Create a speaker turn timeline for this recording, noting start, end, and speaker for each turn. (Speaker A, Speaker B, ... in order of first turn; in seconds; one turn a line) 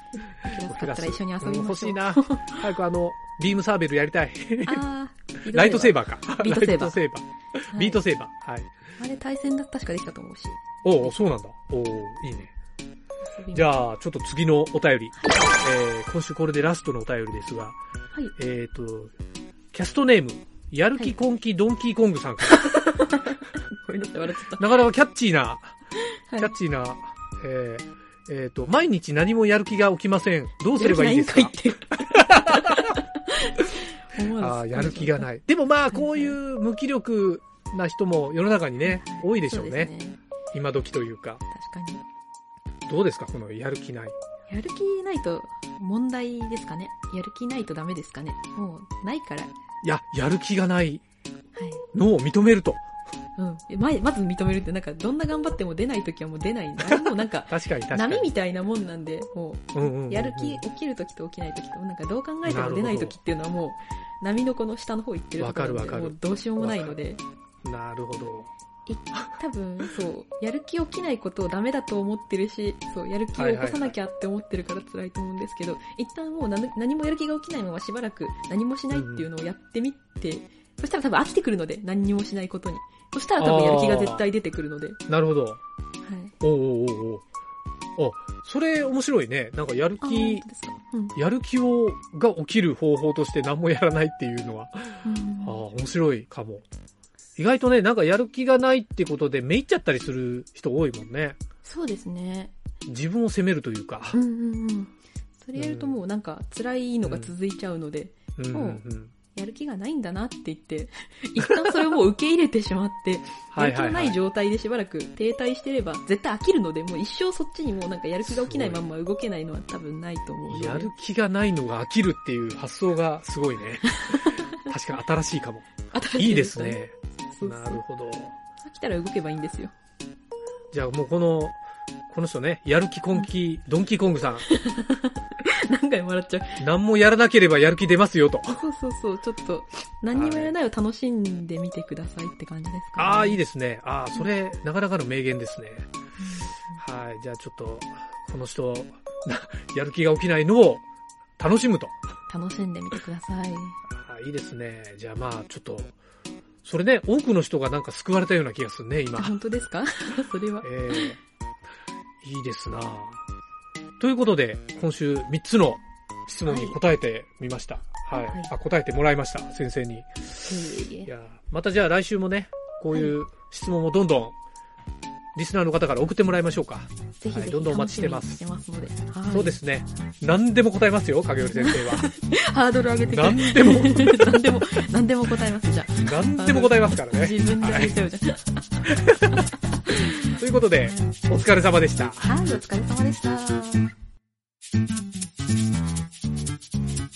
Speaker A: 0.2-2.7
Speaker B: 0.3-4.8
Speaker A: 4.6-7.0
Speaker B: 5.5-8.7
Speaker A: 7.7-8.0
Speaker A: 9.0-10.7
Speaker B: 10.8-12.5
Speaker A: 13.3-13.7
Speaker B: 13.5-17.8
Speaker A: 15.2-15.5
Speaker B: 18.4-19.1
Speaker B: 19.7-22.8
Speaker A: 22.5-24.7
Speaker B: 24.6-25.8
Speaker A: 26.0-26.5
Speaker B: 26.4-33.0
Speaker A: 30.7-35.3
Speaker B: 34.4-39.9
Speaker A: 35.9-36.4
Speaker A: 38.8-40.2
Speaker B: 40.5-41.4
Speaker A: 41.5-42.0
Speaker B: 42.9-44.2
Speaker A: 44.5-49.5
Speaker B: 49.8-51.0
Speaker A: 51.5-51.8
Speaker B: 51.9-52.8
Speaker A: 53.4-67.2
Speaker B: 56.8-58.3
Speaker B: 59.7-60.6
Speaker B: 62.4-63.2
Speaker B: 65.4-67.0
Speaker B: 67.6-68.5
Speaker A: 68.9-85.0
Speaker B: 73.3-74.0
Speaker B: 78.9-79.3
Speaker B: 83.4-84.2
Speaker B: 85.1-85.6
Speaker A: 86.0-86.3
Speaker B: 86.4-87.2
Speaker B: 88.0-90.4
Speaker A: 90.0-91.2
Speaker B: 91.2-96.6
Speaker A: 95.0-95.6
Speaker B: 97.4-101.4
Speaker A: 101.6-102.5
Speaker B: 102.9-104.2
Speaker A: 104.1-120.9
Speaker B: 105.5-106.0
Speaker B: 107.1-107.3
Speaker B: 108.4-109.1
Speaker B: 111.4-111.9
Speaker B: 113.5-114.2
Speaker B: 118.2-118.8
Speaker B: 120.5-128.4
Speaker A: 123.8-124.6
Speaker A: 125.9-126.8
Speaker A: 127.3-127.8
Speaker A: 128.6-129.7
Speaker B: 130.7-134.5
Speaker A: 134.4-136.6
Speaker B: 136.6-138.6
Speaker A: 138.5-143.4
Speaker B: 140.1-140.6
Speaker B: 143.0-145.9
Speaker A: 146.2-146.5
Speaker B: 146.6-150.8
Speaker B: 151.4-152.0
Speaker A: 152.3-153.8
Speaker B: 153.9-155.9
Speaker B: 156.6-159.3
Speaker A: 159.2-161.2
Speaker B: 160.6-161.2
Speaker B: 162.2-163.2
Speaker B: 164.0-170.5
Speaker A: 166.5-166.8
Speaker A: 168.1-168.5
Speaker A: 170.4-171.1
Speaker B: 171.0-174.3
Speaker A: 172.9-173.2
Speaker B: 175.3-178.4
Speaker A: 177.2-179.6
Speaker B: 179.3-182.1
Speaker A: 181.5-190.4
Speaker B: 183.1-184.4
Speaker B: 186.0-188.0
Speaker B: 188.9-192.3
Speaker A: 192.2-193.9